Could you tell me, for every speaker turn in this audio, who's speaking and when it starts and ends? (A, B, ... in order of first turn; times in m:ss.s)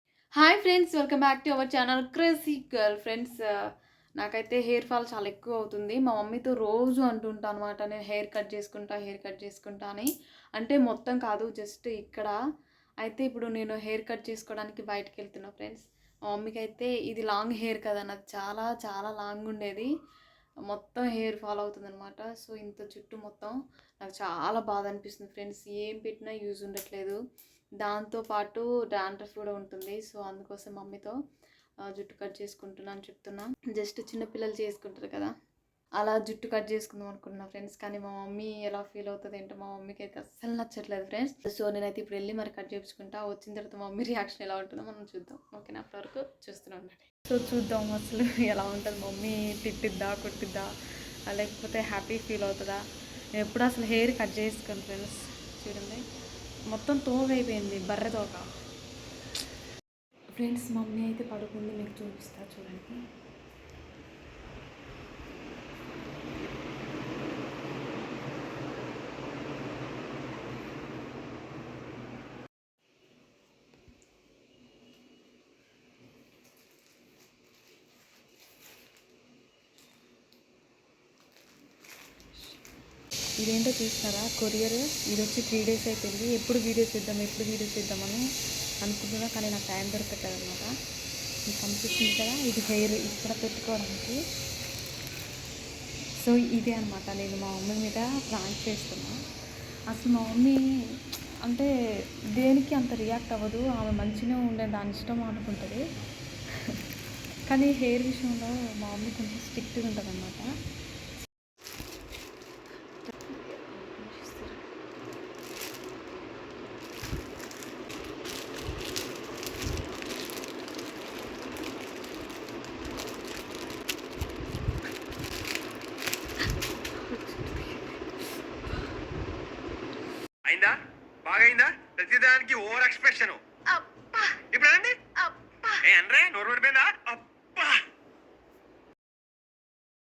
0:00.4-0:03.4 A
0:04.2-0:12.4 A
0:13.0-0:19.9 A
0:20.7-0:27.2 A
0:27.8-0:31.1 A
0:31.8-0:35.3 A
0:36.0-0:50.7 A
0:51.3-0:52.8 A
0:53.4-0:56.0 A
0:56.7-0:58.5 A
1:00.3-1:03.0 A
1:23.4-1:28.2 A
1:28.8-1:30.7 A
1:31.5-1:34.2 A
1:36.2-1:39.2 A
1:39.9-1:40.6 A
1:41.4-1:41.7 A
1:42.3-1:45.8 A
1:47.5-1:50.5 A
1:53.3-1:54.6 A
2:06.9-2:07.8 A
2:10.4-2:13.4 B
2:13.7-2:14.4 A
2:14.5-2:15.0 B
2:15.2-2:15.8 A
2:15.8-2:17.7 B